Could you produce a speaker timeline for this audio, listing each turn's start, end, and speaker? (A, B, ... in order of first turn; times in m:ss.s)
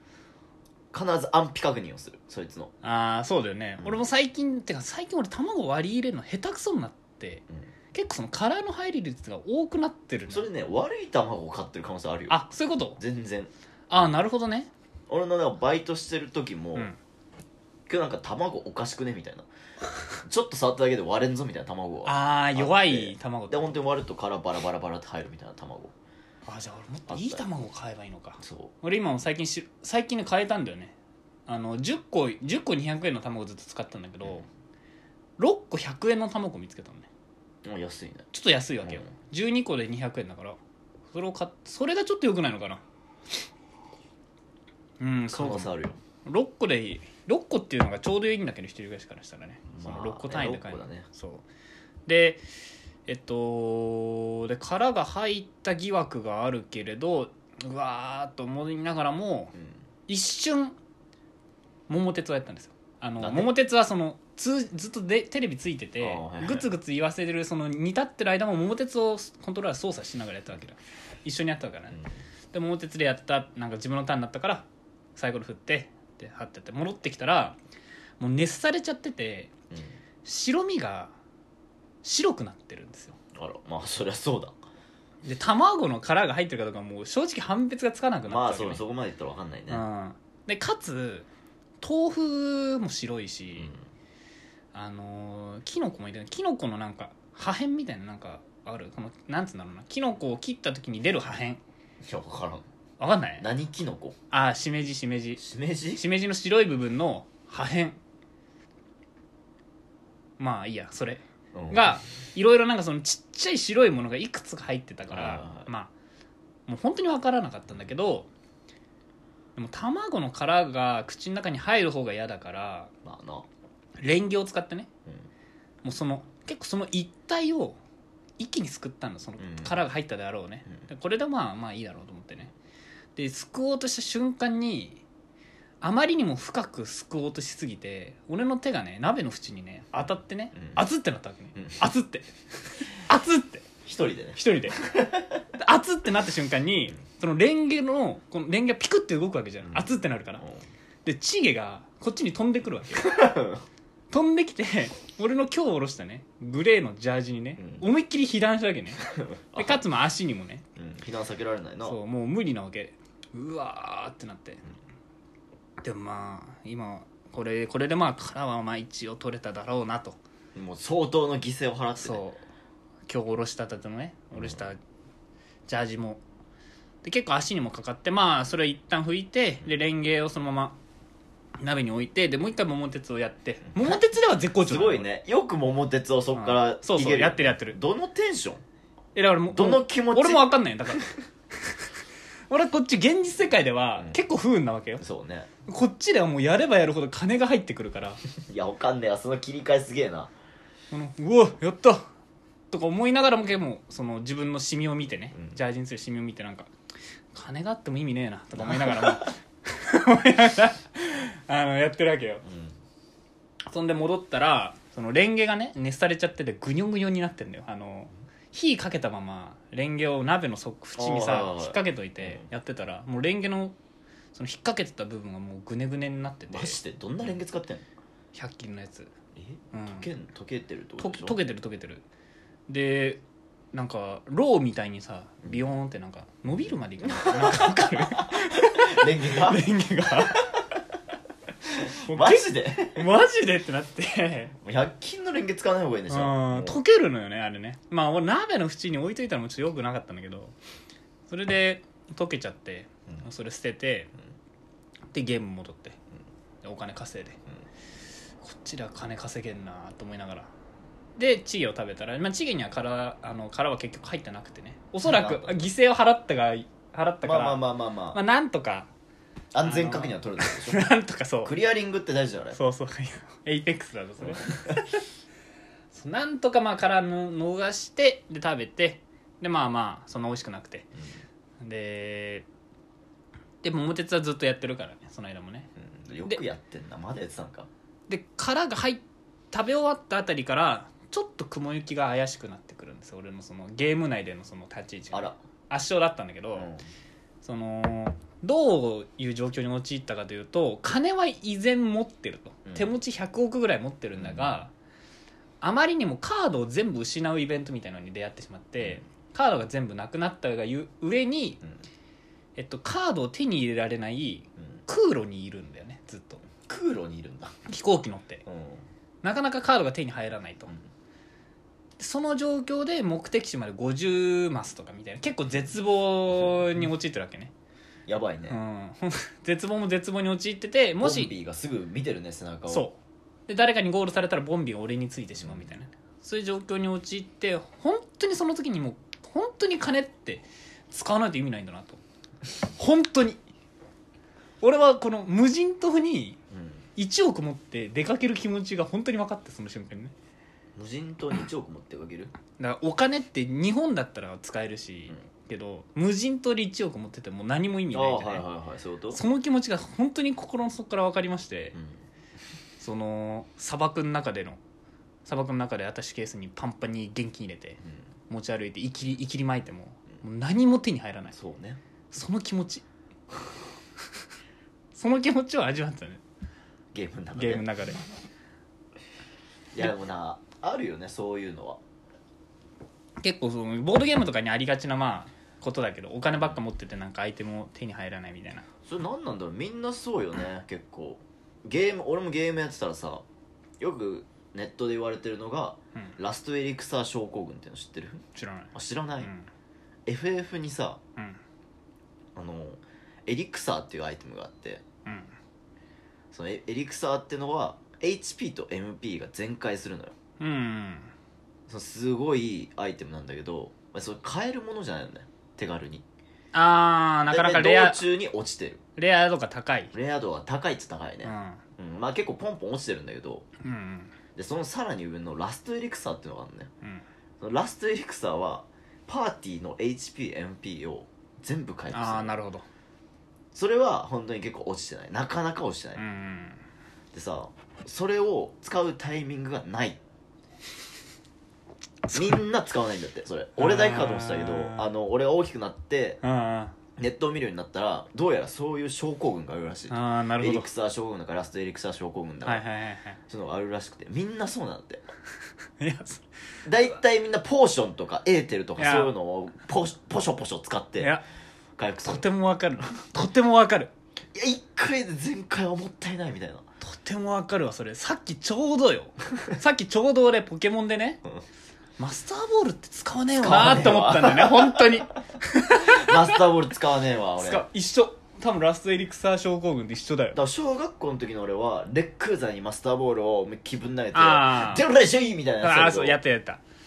0:00.9-0:02.7 A
0:02.8-0:10.5 B
0:10.3-0:12.4 A
0:12.3-0:13.0 B
0:13.0-0:13.5 A
0:13.9-0:14.7 B
0:15.1-0:16.9 A
0:17.9-0:19.5 A
0:20.2-0:25.9 A
0:22.1-0:23.7 B
0:26.5-0:31.0 B
0:27.1-0:27.4 A
0:28.4-0:28.7 A
0:31.5-0:34.5 B
0:35.4-0:37.1 B
0:37.6-0:38.3 A
0:38.3-0:40.6 B
0:38.8-0:39.1 A
0:41.1-0:42.8 B
0:45.0-0:51.4 B
0:45.3-0:46.0 A
0:49.7-0:51.1 A
0:52.1-0:52.4 B
0:53.1-0:59.6 B
1:00.1-1:00.8 B
1:01.9-1:12.0 B
1:03.2-1:03.5 A
1:06.0-1:06.7 A
1:12.5-1:17.6 B
1:18.2-1:19.5 B
1:19.7-1:20.0 A
1:20.2-1:21.1 B
1:22.0-1:23.2 B
1:23.3-1:24.6 A
1:25.2-1:28.8 B
1:28.3-1:29.8 A
1:29.7-1:31.3 B
1:31.8-1:33.7 B
1:33.6-1:33.8 A
1:34.7-1:41.6 B
1:42.0-1:42.6 A
1:43.0-1:43.4 B
1:43.4-1:44.2 A
1:44.3-1:45.4 B
1:45.4-1:46.0 A
1:46.0-1:48.0 B
1:50.4-1:55.9 B
1:51.5-1:52.0 A
1:55.1-1:55.7 A
1:56.7-1:58.3 B
1:59.6-2:02.9 B
2:03.0-2:03.5 A
2:04.0-2:04.9 B
2:05.8-2:07.8 B
2:08.4-2:12.5 B
2:09.4-2:09.8 A
2:13.2-2:15.0 B
2:15.8-2:23.7 B
2:20.6-2:20.8 A
2:21.6-2:21.8 A
2:23.8-2:25.4 A
2:24.4-2:24.8 B
2:25.5-2:30.4 B
2:29.6-2:30.6 A
2:31.0-2:33.2 B
2:33.0-2:33.6 A
2:34.1-2:39.0 B
2:37.6-2:37.9 A
2:39.0-2:39.8 A
2:39.6-2:40.6 B
2:40.8-2:42.0 A
2:41.8-2:44.6 B
2:45.8-2:50.2 B
2:50.6-2:52.2 A
2:52.0-2:52.4 B
2:53.1-2:54.8 B
2:54.3-2:54.7 A
2:55.7-2:56.2 B
2:57.0-3:00.8 B
3:01.6-3:05.1 B
3:03.8-3:04.0 A
3:04.6-3:08.6 A
3:06.3-3:07.8 B
3:09.2-3:11.8 B
3:09.5-3:11.2 A
3:12.5-3:15.0 B
3:15.0-3:15.5 A
3:15.7-3:18.2 B
3:18.4-3:20.3 A
3:20.9-3:22.0 B
3:22.7-3:26.7 B
3:25.3-3:25.6 A
3:27.3-3:32.4 B
3:28.6-3:29.3 A
3:32.4-3:32.8 A
3:33.7-3:43.8 B
3:41.0-3:42.5 A
3:44.4-3:47.3 B
3:46.5-3:47.8 A
3:48.3-3:49.1 B
3:49.4-3:51.4 A
3:49.7-3:50.1 B
3:51.0-3:52.0 B
3:52.7-3:53.2 B
3:53.7-4:00.5 B
3:57.0-3:59.6 A
4:00.3-4:00.8 A
4:01.6-4:03.1 A
4:02.1-4:04.6 B
4:04.6-4:06.8 A
4:06.1-4:10.6 B
4:11.3-4:14.1 B
4:15.1-4:16.0 B
4:16.6-4:17.4 B
4:18.4-4:20.5 B
4:21.2-4:28.9 B
4:25.0-4:25.6 A
4:27.2-4:28.2 A
4:29.5-4:30.9 A
4:29.6-4:31.5 B
4:31.4-4:32.6 A
4:32.5-4:35.0 B
4:34.2-4:34.8 A
4:35.9-4:40.9 B
4:41.6-4:42.5 B
4:43.6-4:45.7 B
4:45.8-4:47.7 A
4:48.1-4:56.7 B
4:55.1-4:55.4 A
4:56.6-4:56.9 A
4:57.4-5:04.7 B
5:02.7-5:03.0 A
5:04.2-5:04.6 A
5:05.6-5:11.6 B
5:12.6-5:16.4 B
5:16.6-5:17.6 A
5:17.7-5:18.4 B
5:18.5-5:18.8 A
5:19.2-5:20.7 B
5:22.0-5:27.5 B
5:28.1-5:28.6 A
5:28.5-5:31.3 B
5:31.0-5:32.9 A
5:32.7-5:42.0 B
5:35.4-5:35.7 A
5:42.8-5:43.4 B
5:44.6-5:46.4 B
5:46.5-5:46.8 A
5:47.0-5:50.1 B
5:50.8-5:52.3 A
5:52.6-5:58.4 B
5:57.9-5:59.2 A
5:59.1-6:01.8 B
6:01.7-6:02.0 A
6:02.8-6:04.6 B
6:05.3-6:11.4 B
6:11.3-6:11.8 A
6:12.1-6:12.8 B
6:14.9-6:16.2 B
6:16.9-6:17.7 A
6:17.4-6:18.0 B
6:19.7-6:21.8 A
6:23.2-6:28.7 B
6:28.8-6:33.2 A
6:33.8-6:39.3 A
6:38.4-6:39.5 B
6:40.1-6:41.0 A
6:42.4-6:44.8 A
6:45.1-6:45.3 B
6:46.3-6:50.1 A
6:50.4-6:51.1 B
6:51.7-6:56.0 A
6:56.5-6:58.0 B
6:57.3-6:58.8 A
6:59.0-6:59.9 B
6:59.9-7:03.5 A
7:01.2-7:01.6 B
7:03.6-7:04.1 B
7:04.4-7:06.7 A
7:07.4-7:12.4 A
7:11.9-7:12.7 B
7:13.5-7:16.0 A
7:16.0-7:16.6 B
7:17.1-7:20.0 A
7:22.0-7:22.4 B
7:22.1-7:26.2 A
7:23.6-7:24.9 B
7:26.2-7:26.8 B
7:27.0-7:32.6 A
7:29.9-7:30.7 B
7:32.4-7:33.2 B
7:33.3-7:35.1 A
7:35.8-7:36.2 B
7:36.6-7:41.2 A
7:38.8-7:39.1 B
7:41.0-7:41.2 B
7:41.8-7:42.2 A
7:42.0-7:43.9 B
7:44.3-7:46.6 A
7:46.8-7:51.2 B
7:52.0-7:56.4 B
7:53.4-7:55.1 A
7:55.8-7:57.7 A
7:57.4-8:00.4 B
8:00.4-8:06.2 A
8:04.1-8:04.8 B
8:05.6-8:06.6 B